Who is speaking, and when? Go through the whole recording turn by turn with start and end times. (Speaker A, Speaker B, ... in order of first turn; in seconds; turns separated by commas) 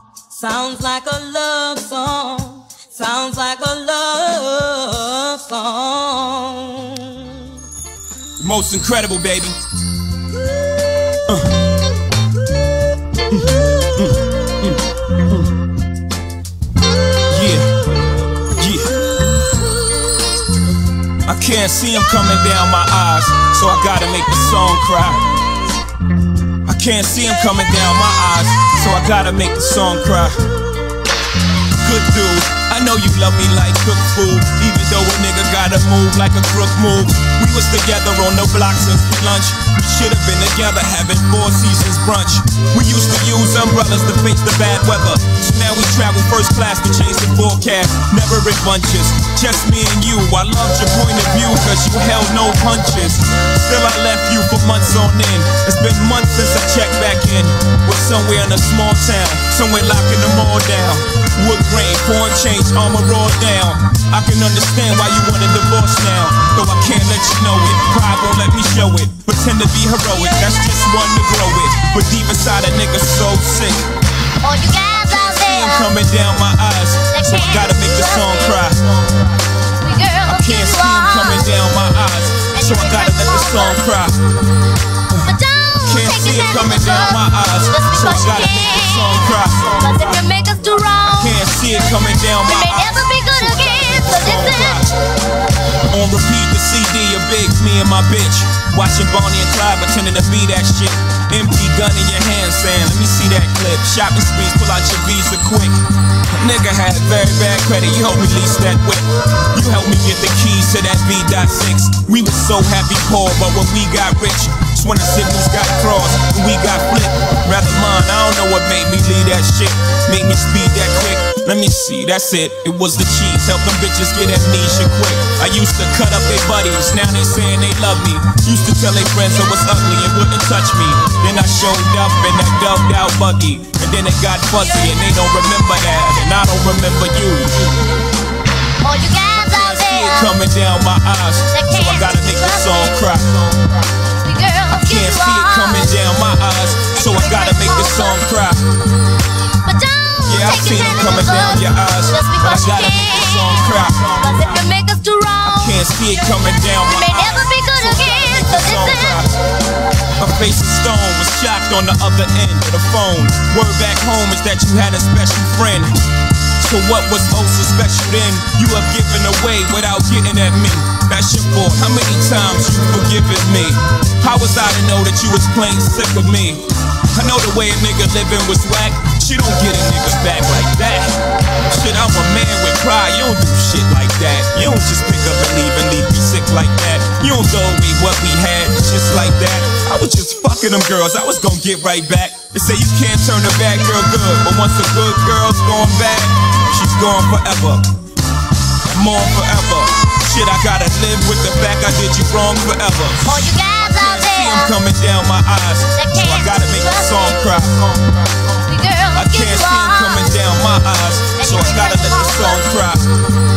Speaker A: 0.3-1.5, Speaker B: 0.5-5.9, Speaker A: 2.0-3.0, Speaker A: 5.5-7.5, Speaker C: 8.4-9.6, Speaker C: 11.3-11.5, Speaker C: 13.3-15.5, Speaker C: 17.3-17.7, Speaker C: 18.6-18.9, Speaker C: 21.2-25.2, Speaker C: 26.6-30.4, Speaker C: 31.8-73.9, Speaker A: 74.4-75.9, Speaker C: 74.9-79.2, Speaker A: 77.1-78.7, Speaker A: 79.7-81.6, Speaker C: 80.2-84.2, Speaker A: 82.5-83.8, Speaker C: 85.1-90.0, Speaker A: 85.2-91.4, Speaker C: 91.0-94.9, Speaker A: 92.3-94.9, Speaker C: 95.9-137.7, Speaker A: 138.8-140.4, Speaker C: 139.3-144.0, Speaker A: 141.5-143.0, Speaker A: 144.1-146.0, Speaker C: 144.7-148.6, Speaker A: 146.9-148.3, Speaker A: 149.5-155.9, Speaker C: 150.2-154.3, Speaker C: 155.4-159.4, Speaker A: 156.8-159.2, Speaker C: 160.2-165.9, Speaker C: 166.6-181.2, Speaker C: 181.7-197.9, Speaker C: 198.8-208.6, Speaker A: 203.2-204.8, Speaker A: 205.9-207.4, Speaker A: 208.6-210.4, Speaker C: 209.1-213.1, Speaker A: 211.3-212.8